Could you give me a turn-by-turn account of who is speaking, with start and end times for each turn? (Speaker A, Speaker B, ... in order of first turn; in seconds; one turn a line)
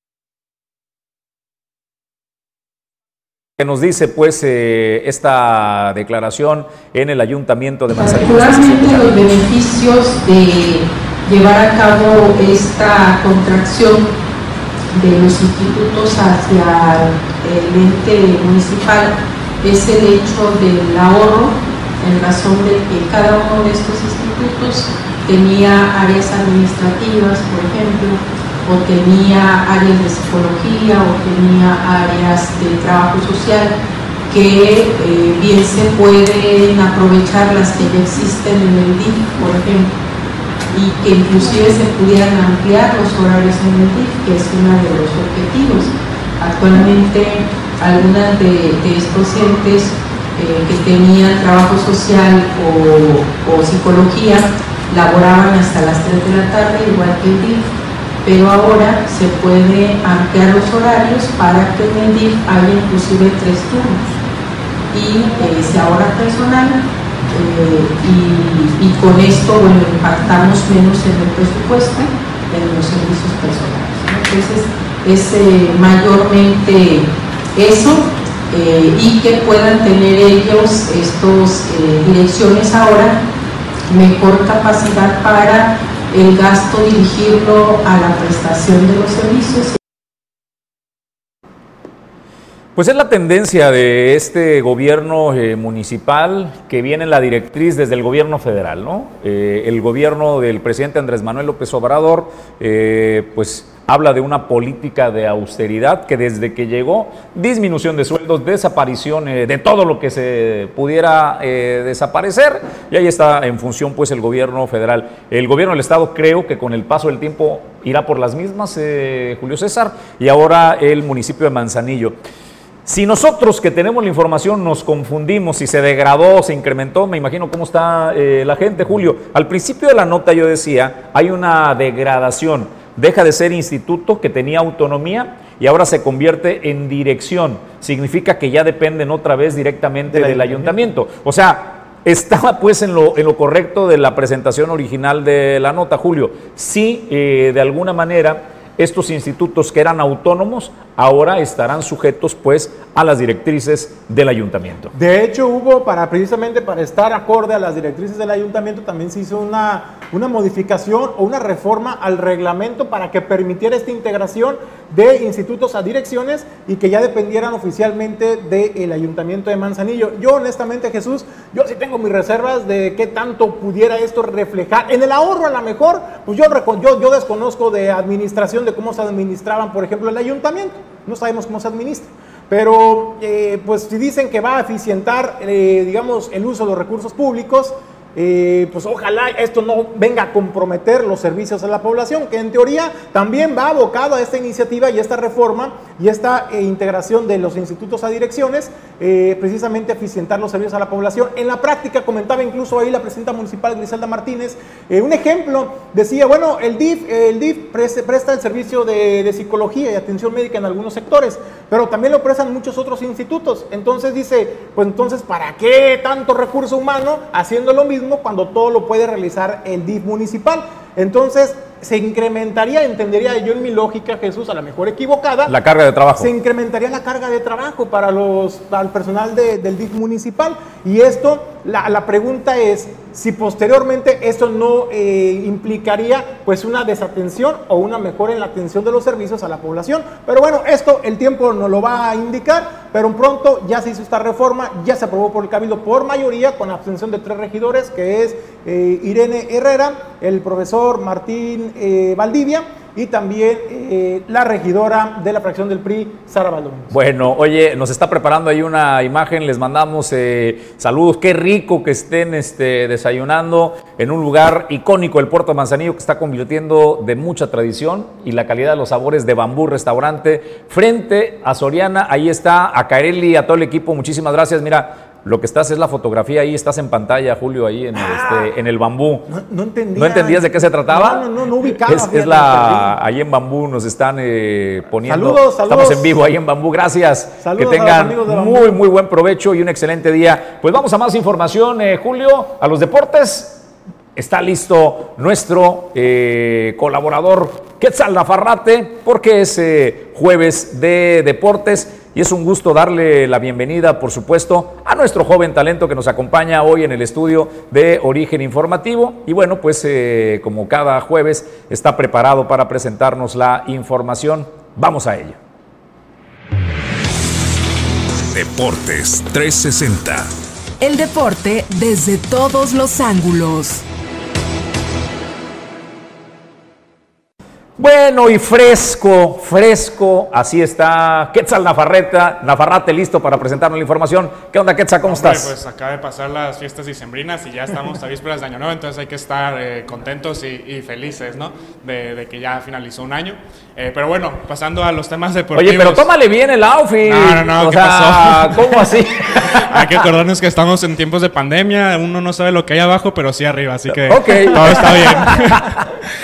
Speaker A: 3.6-9.3
Speaker B: 8.0-14.1
Speaker B: 14.9-33.7
Speaker B: 34.3-39.9
Speaker B: 40.7-57.7
Speaker B: 58.2-64.2
Speaker B: 64.9-83.2
Speaker B: 83.9-89.8
Speaker A: 92.8-122.1
Speaker A: 122.8-154.9
Speaker C: 140.1-140.8
Speaker C: 154.9-225.6
Speaker A: 225.5-226.3
Speaker C: 226.2-256.9
Speaker A: 256.9-279.3
Speaker C: 277.9-278.5
Speaker C: 279.3-282.9
Speaker A: 279.9-281.2
Speaker A: 281.8-315.4
Speaker C: 285.0-286.2
Speaker C: 287.4-288.8
Speaker D: 318.2-320.3
Speaker E: 320.8-323.8
Speaker A: 327.8-335.5
Speaker F: 335.0-346.1
Speaker A: 345.5-350.0
Speaker F: 347.0-355.7
Speaker A: 354.1-355.8